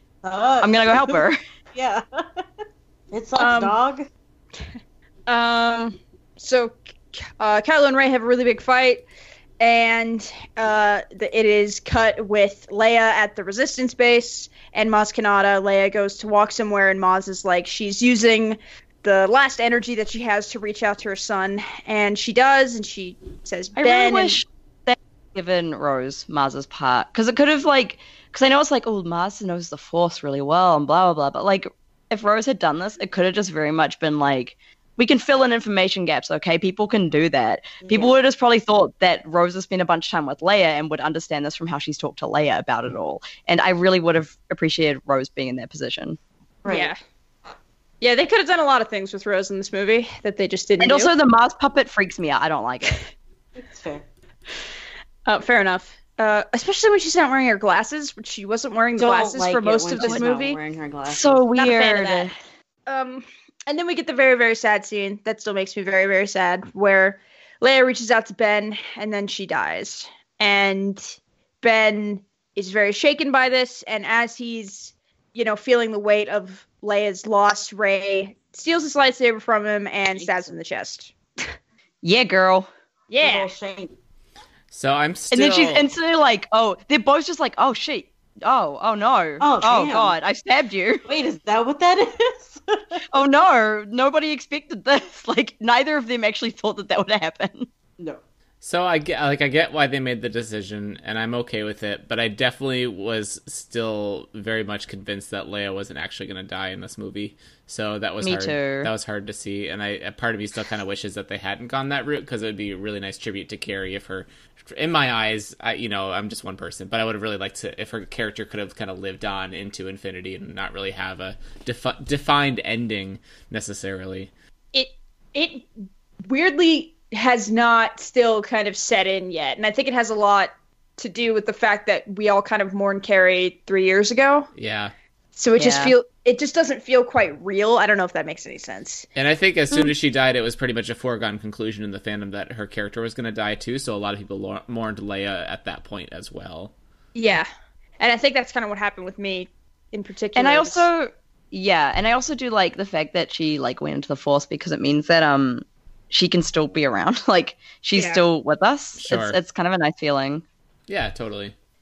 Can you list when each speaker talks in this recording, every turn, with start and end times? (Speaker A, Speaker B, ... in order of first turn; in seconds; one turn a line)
Speaker A: 0.2-2.0
Speaker B: 0.6-1.4
Speaker A: 3.1-4.0
Speaker C: 3.4-3.8
Speaker C: 5.3-9.0
Speaker C: 9.6-24.4
Speaker B: 23.8-46.2
Speaker A: 37.8-38.1
Speaker A: 46.6-46.9
Speaker C: 46.7-47.0
Speaker C: 48.0-51.1
Speaker B: 50.8-53.0
Speaker A: 53.6-54.0
Speaker C: 55.2-60.6
Speaker A: 59.0-61.4
Speaker B: 61.1-62.3
Speaker C: 61.5-62.3
Speaker C: 62.9-81.1
Speaker A: 80.1-80.5
Speaker B: 82.0-82.7
Speaker C: 83.1-83.5
Speaker A: 83.2-83.9
Speaker D: 84.7-85.9
Speaker B: 85.3-91.0
Speaker A: 89.4-90.1
Speaker A: 91.0-93.0
Speaker B: 93.1-97.7
Speaker D: 98.6-124.3
Speaker B: 108.2-108.9
Speaker C: 124.7-125.7
Speaker C: 126.3-134.5
Speaker D: 134.6-134.9
Speaker C: 135.3-139.1
Speaker B: 135.6-135.9
Speaker D: 139.2-146.7
Speaker C: 147.1-147.5
Speaker C: 148.0-150.8
Speaker B: 150.3-160.4
Speaker D: 159.0-159.4
Speaker D: 160.9-161.5